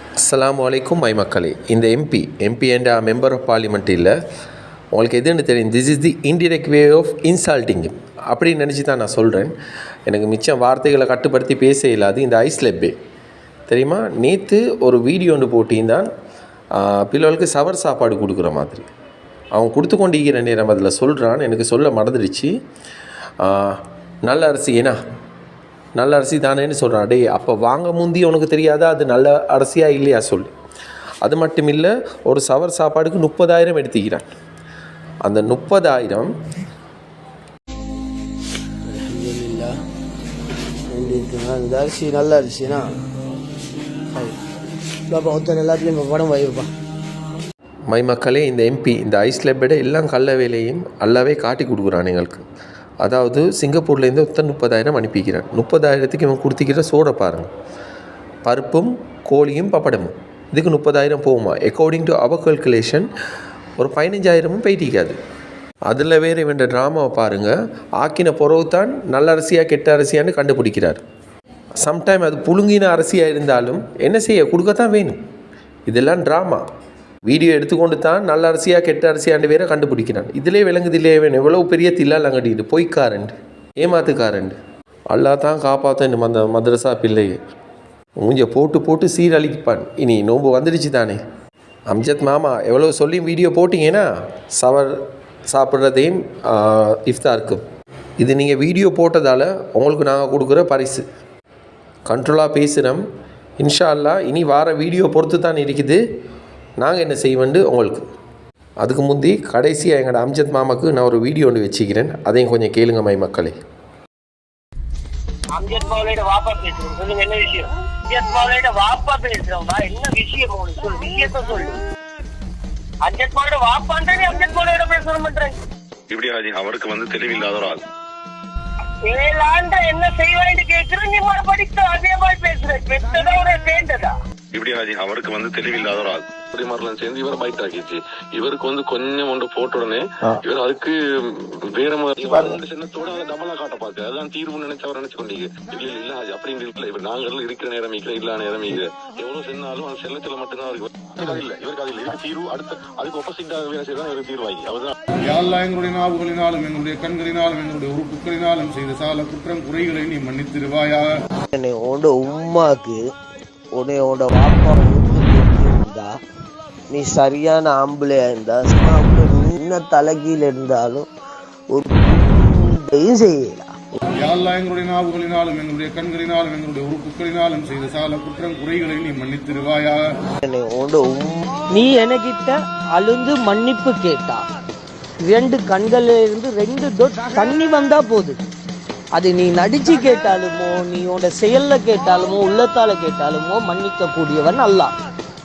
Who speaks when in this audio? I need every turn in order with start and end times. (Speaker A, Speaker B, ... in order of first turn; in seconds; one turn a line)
Speaker A: 0.2-4.1
Speaker A: 4.9-9.5
Speaker A: 10.1-12.9
Speaker A: 13.7-16.1
Speaker A: 16.7-18.9
Speaker A: 19.6-22.5
Speaker A: 23.4-25.0
Speaker A: 26.0-30.5
Speaker A: 31.2-34.2
Speaker A: 35.2-36.3
Speaker B: 38.9-39.7
Speaker B: 40.9-42.9
Speaker B: 45.1-46.7
Speaker A: 47.9-52.4
Speaker A: 53.0-57.5
Speaker A: 58.4-63.1
Speaker A: 63.8-65.2
Speaker A: 65.9-71.0
Speaker A: 71.8-75.2
Speaker A: 75.9-76.6
Speaker A: 77.2-84.6
Speaker A: 85.1-87.3
Speaker A: 88.2-91.2
Speaker A: 91.9-95.0
Speaker A: 95.5-97.6
Speaker A: 98.2-101.0
Speaker A: 102.1-103.0
Speaker A: 103.6-106.0
Speaker A: 106.8-108.0
Speaker A: 108.8-113.6
Speaker C: 115.5-121.8
Speaker C: 123.0-125.5
Speaker D: 126.1-127.8
Speaker C: 129.0-134.1
Speaker D: 134.5-154.9
Speaker E: 155.2-161.1
Speaker B: 161.5-163.0
Speaker B: 163.7-166.1
Speaker B: 166.9-171.1
Speaker B: 171.8-173.6
Speaker E: 174.2-180.1
Speaker B: 180.5-181.3
Speaker F: 181.7-184.4
Speaker F: 185.2-188.4
Speaker F: 189.1-194.9